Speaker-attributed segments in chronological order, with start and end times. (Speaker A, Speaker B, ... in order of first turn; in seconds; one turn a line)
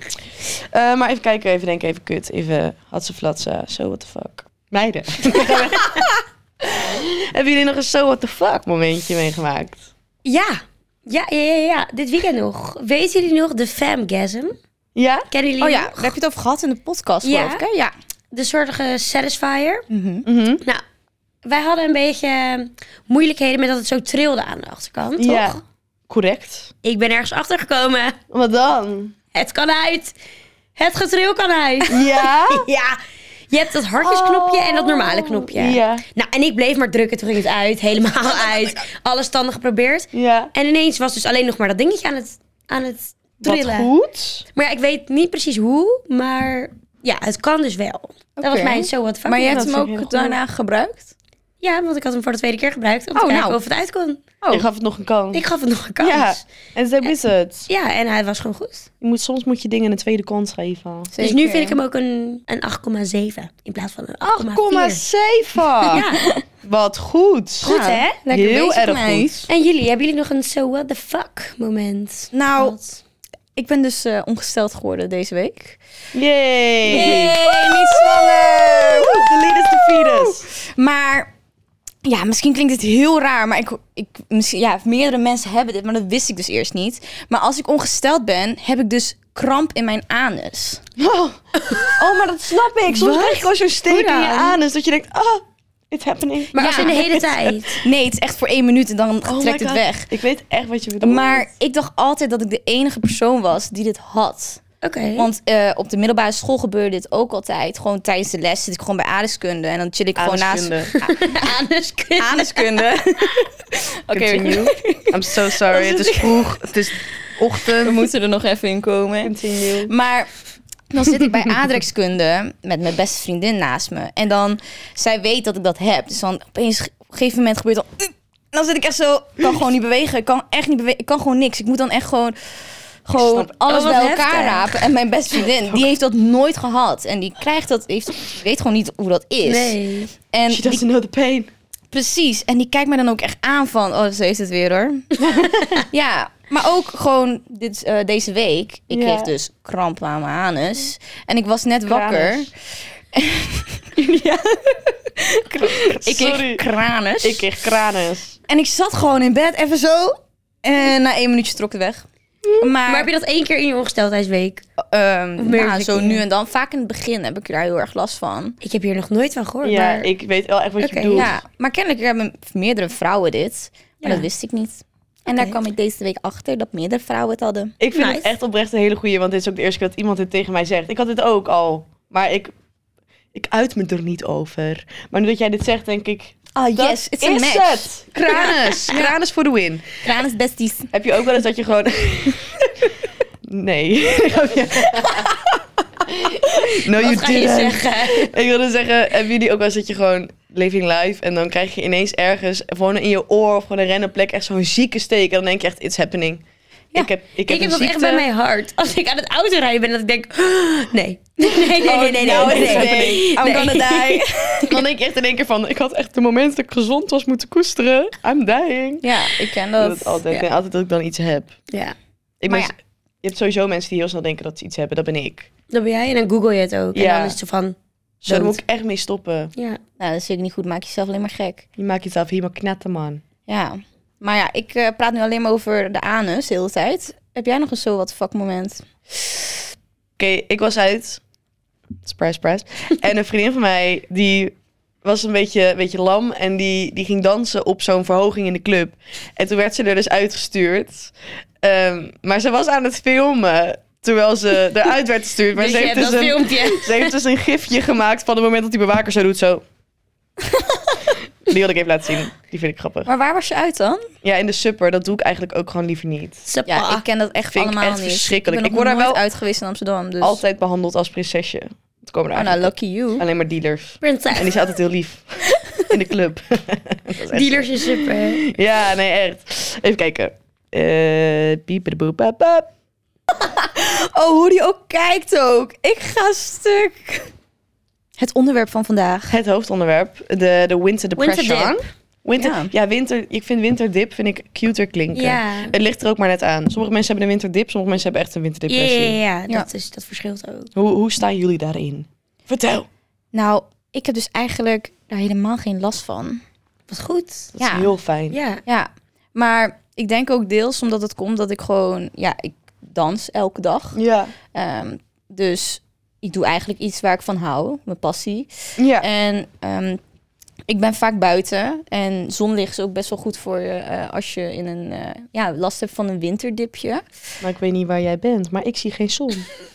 Speaker A: 0.4-9.9
Speaker B: 5.3-6.0
Speaker B: 10.2-14.6
Speaker A: 14.9-15.2
Speaker B: 15.3-16.1
Speaker C: 15.6-17.9
Speaker B: 17.2-17.6
Speaker B: 18.3-19.9
Speaker C: 19.9-20.2
Speaker A: 20.2-20.6
Speaker B: 21.4-25.6
Speaker A: 25.2-26.7
Speaker B: 26.8-28.2
Speaker A: 28.3-29.1
Speaker B: 29.3-30.1
Speaker B: 30.8-43.9
Speaker A: 31.9-32.7
Speaker A: 34.0-36.0
Speaker A: 40.1-40.5
Speaker A: 43.4-44.4
Speaker B: 44.5-49.7
Speaker C: 48.4-51.1
Speaker A: 49.4-50.4
Speaker B: 51.6-54.2
Speaker C: 53.1-53.6
Speaker A: 54.5-55.4
Speaker B: 55.3-56.4
Speaker A: 56.0-57.7
Speaker B: 57.7-58.9
Speaker A: 59.0-61.1
Speaker C: 61.1-61.8
Speaker B: 61.2-65.0
Speaker A: 64.2-66.0
Speaker B: 65.8-66.2
Speaker C: 65.9-66.4
Speaker A: 66.6-67.7
Speaker B: 67.6-68.2
Speaker C: 67.6-69.5
Speaker A: 68.3-69.5
Speaker B: 69.5-73.0
Speaker C: 72.3-72.8
Speaker C: 73.5-75.8
Speaker A: 76.1-80.4
Speaker C: 76.8-81.3
Speaker B: 76.9-77.3
Speaker C: 82.0-90.8
Speaker A: 91.0-97.8
Speaker B: 91.7-92.0
Speaker B: 92.9-94.6
Speaker B: 96.5-97.8
Speaker C: 96.5-97.0
Speaker C: 97.8-100.1
Speaker A: 99.2-101.5
Speaker C: 101.0-104.6
Speaker B: 104.8-105.3
Speaker C: 105.2-111.5
Speaker A: 110.2-110.9
Speaker B: 110.9-112.9
Speaker C: 112.2-116.7
Speaker A: 114.1-118.1
Speaker C: 117.7-120.3
Speaker A: 119.2-119.9
Speaker C: 120.9-139.8
Speaker A: 133.1-133.5
Speaker B: 133.7-134.7
Speaker A: 135.6-135.9
Speaker B: 139.4-140.1
Speaker C: 140.3-140.8
Speaker A: 140.5-141.5
Speaker C: 141.9-145.1
Speaker A: 145.2-145.8
Speaker C: 145.9-152.5
Speaker A: 148.9-149.3
Speaker A: 151.8-152.5
Speaker C: 153.1-157.5
Speaker A: 155.6-156.6
Speaker A: 157.2-158.4
Speaker C: 158.5-162.1
Speaker A: 162.4-162.7
Speaker C: 162.6-163.1
Speaker B: 162.8-164.6
Speaker C: 164.9-168.6
Speaker B: 165.4-166.2
Speaker B: 168.6-170.1
Speaker A: 169.6-171.4
Speaker B: 170.8-171.3
Speaker C: 171.1-177.7
Speaker B: 174.0-174.3
Speaker B: 175.3-175.6
Speaker A: 177.8-182.5
Speaker B: 177.9-178.3
Speaker A: 183.3-189.8
Speaker C: 186.5-189.1
Speaker C: 190.0-190.9
Speaker A: 190.9-192.9
Speaker A: 193.4-195.4
Speaker A: 196.1-208.3
Speaker B: 196.7-198.3
Speaker B: 207.4-214.7
Speaker A: 211.8-221.5
Speaker C: 211.8-214.7
Speaker C: 219.0-220.4
Speaker B: 221.7-221.9
Speaker A: 222.4-225.5
Speaker C: 222.5-222.7
Speaker B: 225.7-227.8
Speaker A: 226.9-227.3
Speaker A: 228.2-229.5
Speaker B: 228.3-228.6
Speaker C: 230.0-231.6
Speaker A: 231.8-233.2
Speaker C: 233.5-238.8
Speaker A: 240.2-241.2
Speaker A: 242.0-259.6
Speaker B: 255.5-257.1
Speaker C: 260.5-260.9
Speaker A: 261.4-263.1
Speaker C: 263.1-264.1
Speaker A: 264.2-266.4
Speaker B: 266.5-267.0
Speaker C: 266.6-270.4
Speaker A: 267.5-269.2
Speaker A: 270.2-282.7
Speaker C: 272.3-273.2
Speaker B: 274.0-274.6
Speaker C: 275.6-275.8
Speaker B: 277.3-278.4
Speaker C: 283.3-287.3
Speaker C: 288.2-289.4
Speaker A: 289.3-299.2
Speaker B: 291.2-291.8
Speaker C: 292.4-292.7
Speaker B: 295.1-295.7
Speaker B: 298.7-300.7
Speaker A: 300.8-302.9
Speaker C: 303.3-306.4
Speaker B: 306.9-307.5
Speaker A: 307.6-308.4
Speaker C: 307.6-307.9
Speaker B: 308.3-308.6
Speaker C: 308.6-314.0
Speaker A: 313.9-314.3
Speaker C: 314.5-320.0
Speaker A: 318.8-319.1
Speaker C: 320.7-327.0
Speaker A: 327.4-329.5